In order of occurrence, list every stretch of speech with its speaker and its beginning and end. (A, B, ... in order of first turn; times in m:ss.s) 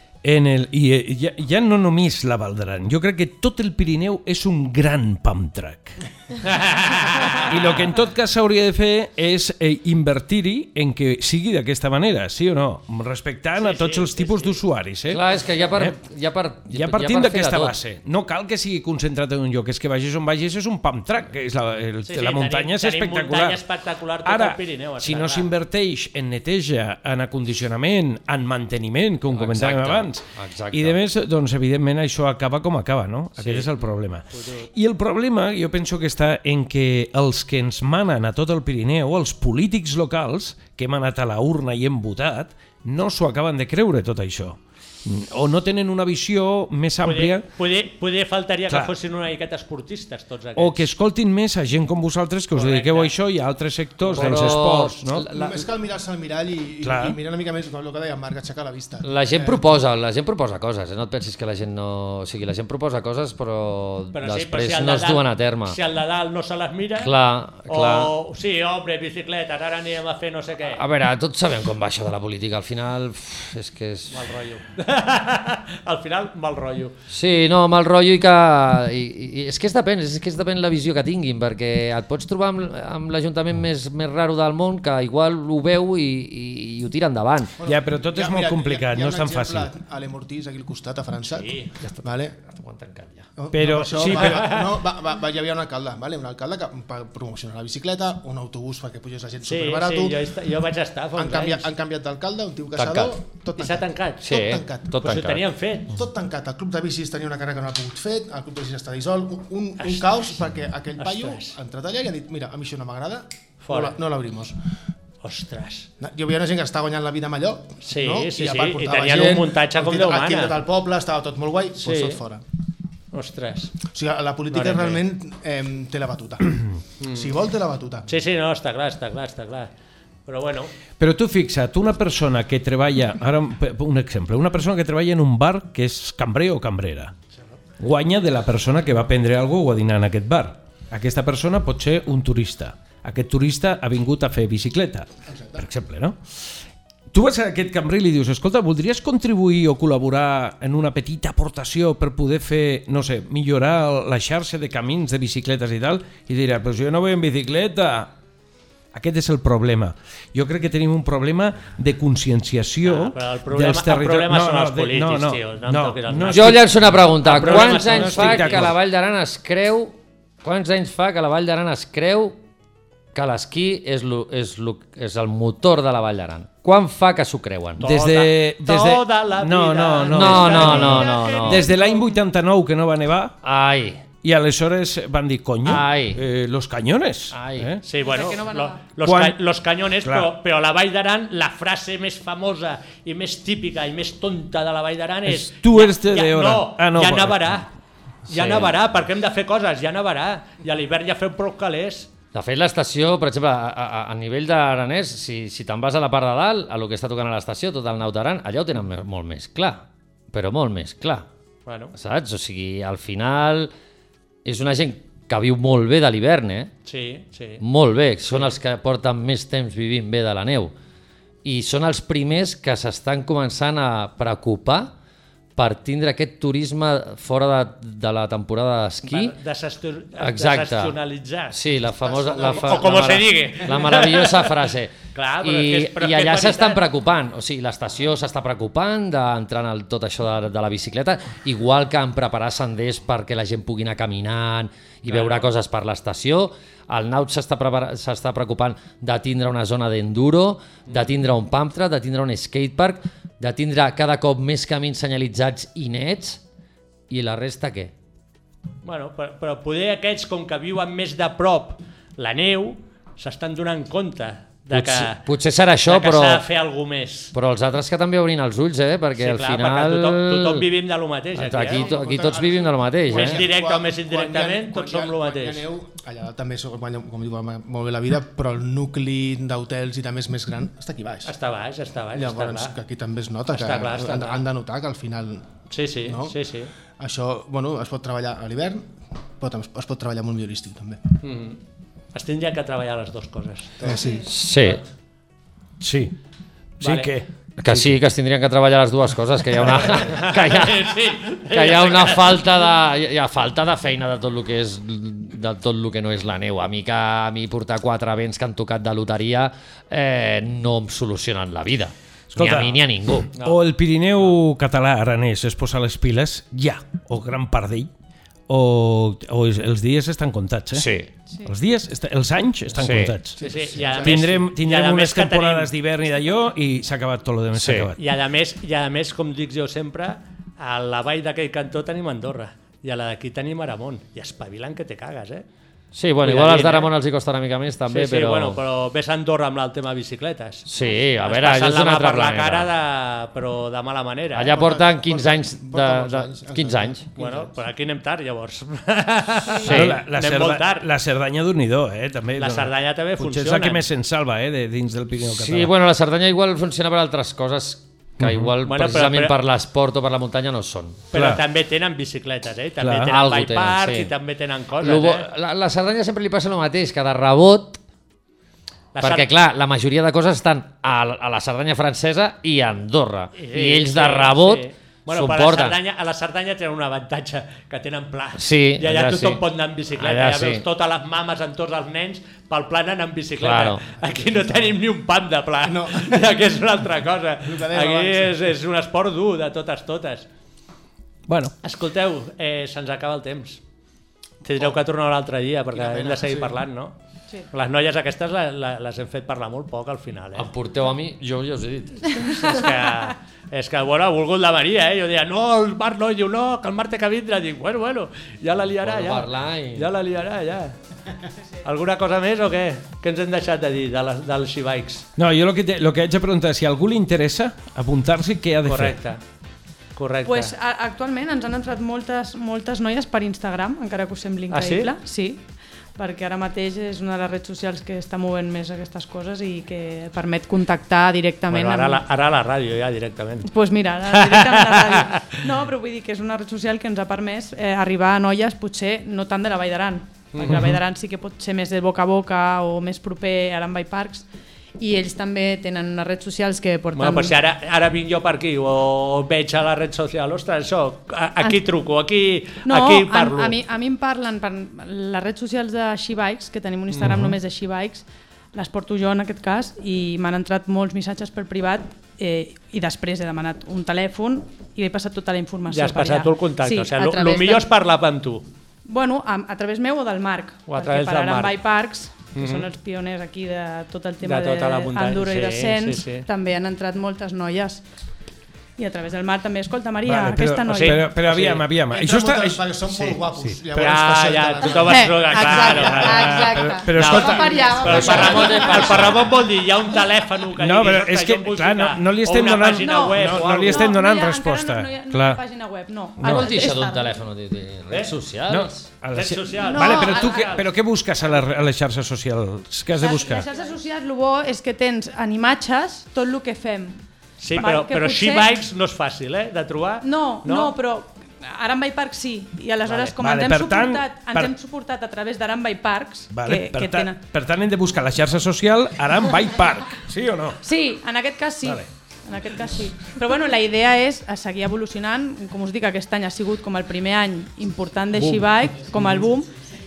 0:00.2-0:06.0 A
0:06.4-0:07.8 B
0:07.4-0:15.2 A
0:13.6-0:14.6 B
0:15.1-0:17.8 C
0:16.7-0:23.6 A
0:22.0-0:25.5 B
0:24.2-0:47.5 A
0:29.3-0:31.0 C
0:33.4-0:33.7 B
0:34.3-0:34.7 B
0:47.0-0:50.9 B
0:48.7-0:48.9 A
0:50.6-0:55.3 A
0:52.5-0:53.1 B
0:54.0-0:54.5 B
0:54.2-0:55.6 C
0:55.3-0:59.6 D
0:56.8-0:57.2 A
0:59.0-1:05.8 C
1:04.1-1:07.1 B
1:07.0-1:08.1 C
1:07.7-1:10.8 B
1:10.7-1:14.3 C
1:14.1-1:16.9 B
1:17.1-1:27.6 C
1:27.6-1:32.4 D
1:27.7-1:29.7 A
1:31.3-1:31.7 B
1:31.8-1:33.3 C
1:33.4-1:40.2 D
1:33.5-1:34.6 A
1:34.1-1:34.7 B
1:39.4-1:41.7 B
1:41.2-1:45.2 D
1:42.8-1:43.2 C
1:43.6-1:44.3 B
1:44.2-1:45.5 C
1:45.0-1:45.9 B
1:45.9-1:54.6 D
1:49.8-1:50.2 B
1:51.0-1:51.6 B
1:53.6-1:54.0 B
1:55.2-1:55.9 B
1:56.0-2:02.4 D
1:57.8-2:00.6 B
2:01.8-2:02.2 B
2:03.1-2:03.8 B
2:03.9-2:08.1 D
2:04.5-2:05.0 B
2:07.0-2:07.3 B
2:08.1-2:09.7 B
2:10.3-2:10.7 B
2:11.0-2:17.1 A
2:17.8-2:26.2 A
2:25.3-2:25.7 D
2:27.1-2:38.1 A
2:38.9-2:48.8 A
2:42.8-2:46.6 B
2:46.3-2:52.4 C
2:47.2-2:48.7 B
2:53.2-2:57.8 C
2:57.8-3:03.3 A
2:57.8-3:01.9 B
3:00.1-3:01.7 C
3:01.0-3:02.2 E
3:03.4-3:04.0 C
3:04.2-3:07.8 A
3:05.6-3:06.2 C
3:07.3-3:07.7 C
3:07.8-3:17.7 B
3:08.0-3:08.9 E
3:09.0-3:09.4 A
3:10.0-3:10.3 A
3:15.3-3:17.7 A
3:18.3-3:22.1 B
3:18.3-3:18.8 C
3:22.3-3:31.3 C
3:31.7-3:31.9 B
3:31.9-3:33.7 C
3:34.4-3:36.7 C
3:36.9-3:37.6 B
3:37.6-3:40.7 C
3:41.4-3:44.9 C
3:45.6-3:49.4 C
3:49.1-3:54.5 B
3:50.2-3:51.0 C
3:51.5-4:16.4 C
3:52.2-3:53.0 D
3:55.1-3:56.8 B
4:05.1-4:05.5 B
4:17.1-4:17.9 C
4:18.8-4:25.2 B
4:24.7-4:26.4 C
4:25.9-4:27.3 B
4:27.3-4:30.6 C
4:29.2-4:31.9 B
4:31.4-4:33.4 C
4:31.7-4:41.3 D
4:33.1-4:35.6 B
4:41.2-4:42.7 B
4:42.1-4:46.4 D
4:43.5-4:44.4 B
4:45.7-4:46.7 B
4:47.0-4:51.0 D
4:51.2-4:51.6 B
4:52.1-4:53.9 B
4:53.8-4:54.3 D
4:54.3-4:54.8 C
4:55.8-4:56.1 A
4:56.8-4:57.9 A
4:56.8-4:57.1 B
4:57.6-5:01.0 C
4:59.8-5:02.4 B
5:01.5-5:13.3 C
5:12.3-5:12.8 A
5:13.4-5:17.9 A
5:18.5-5:20.9 A
5:20.7-5:21.1 C
5:21.4-5:28.0 A
5:22.8-5:23.1 C
5:23.4-5:24.3 D
5:23.4-5:25.7 B
5:27.6-5:27.9 C
5:28.0-5:35.5 B
5:35.9-5:38.6 C
5:36.2-5:36.9 B
5:37.9-5:40.7 B
5:40.7-5:42.7 C
5:41.2-5:44.6 B
5:44.4-5:47.0 C
5:44.5-5:47.6 D
5:47.2-5:50.9 B
5:49.6-5:50.0 C
5:49.7-5:55.7 A
5:52.4-5:53.8 B
5:55.2-6:01.0 C
5:58.2-5:58.5 A
5:58.6-5:59.4 B
6:01.1-6:05.3 B
6:01.1-6:01.4 A
6:02.8-6:03.1 A
6:03.1-6:04.1 C
6:04.8-6:07.8 C
6:09.0-6:09.3 B
6:09.0-6:15.8 C
6:13.4-6:30.3 B
6:18.4-6:19.4 C
6:20.0-6:20.6 C
6:23.4-6:23.9 C
6:24.0-6:24.8 D
6:25.6-6:26.4 D
6:27.4-6:28.4 D
6:31.3-6:31.5 A
6:31.6-6:33.6 B
6:34.4-6:37.0 B
6:35.7-6:36.5 D
6:37.5-6:40.5 B
6:40.4-6:42.4 C
6:42.2-6:50.8 B
6:48.8-6:49.9 C
6:51.6-6:55.0 B
6:55.2-6:59.0 A
6:58.6-6:59.2 B
7:00.0-7:00.5 B
7:00.2-7:05.4 E
7:04.5-7:04.9 B
7:06.0-7:12.0 E
7:11.5-7:13.5 B
7:13.4-7:24.3 E
7:14.1-7:15.4 B
7:20.3-7:20.7 B
7:20.4-7:20.8 A
7:24.8-7:27.4 E
7:27.0-7:33.6 B
7:32.6-7:47.7 E
7:36.9-7:37.3 B
7:37.0-7:37.3 A
7:45.7-7:48.5 B
7:48.9-7:57.8 E
7:50.7-7:51.5 B
7:52.3-7:52.7 B
7:54.2-7:56.3 B
7:58.8-8:01.3 E
8:00.0-8:02.6 A
8:01.1-8:01.6 B
8:01.9-8:06.2 D
8:03.7-8:13.9 B
8:04.8-8:09.0 E
8:05.9-8:08.3 A
8:07.8-8:09.3 C
8:10.6-8:15.4 A
8:12.8-8:17.2 E
8:16.2-8:16.5 A
8:16.2-8:18.9 C
8:18.5-8:23.5 A
8:19.1-8:20.7 B
8:19.6-8:20.6 E
8:22.9-8:27.0 E
8:27.4-8:30.7 B
8:27.6-8:28.6 E
8:30.0-8:37.2 E
8:32.9-8:33.1 B
8:33.2-8:34.5 A
8:36.3-8:40.6 A
8:40.6-8:49.5 E
8:48.2-8:49.2 A